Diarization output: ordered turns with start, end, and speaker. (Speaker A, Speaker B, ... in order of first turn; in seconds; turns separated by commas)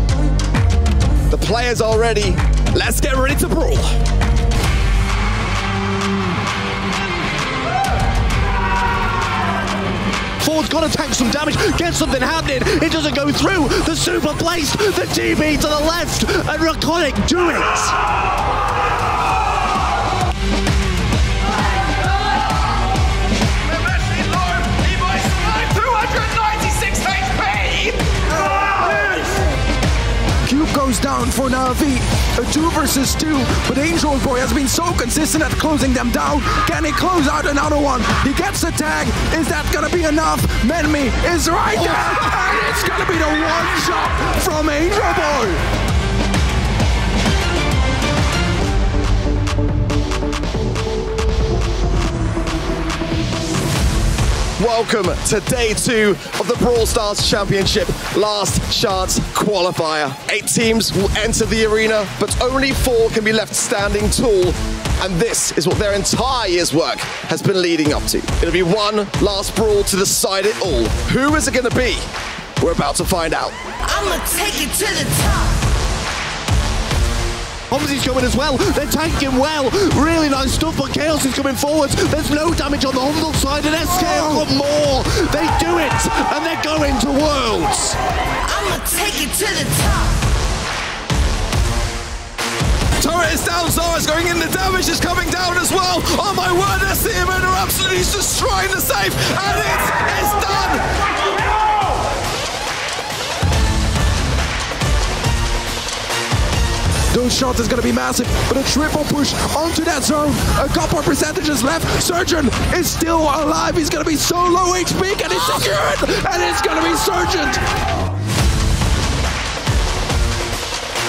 Speaker A: 1.3-4.0, Speaker B: 10.4-17.9, Speaker A: 23.7-28.1, Speaker C: 30.4-45.6, Speaker A: 54.6-72.1, Speaker A: 72.6-73.6, Speaker D: 73.8-75.5, Speaker B: 77.7-88.0, Speaker D: 88.4-90.1, Speaker A: 93.0-100.9, Speaker C: 107.1-117.6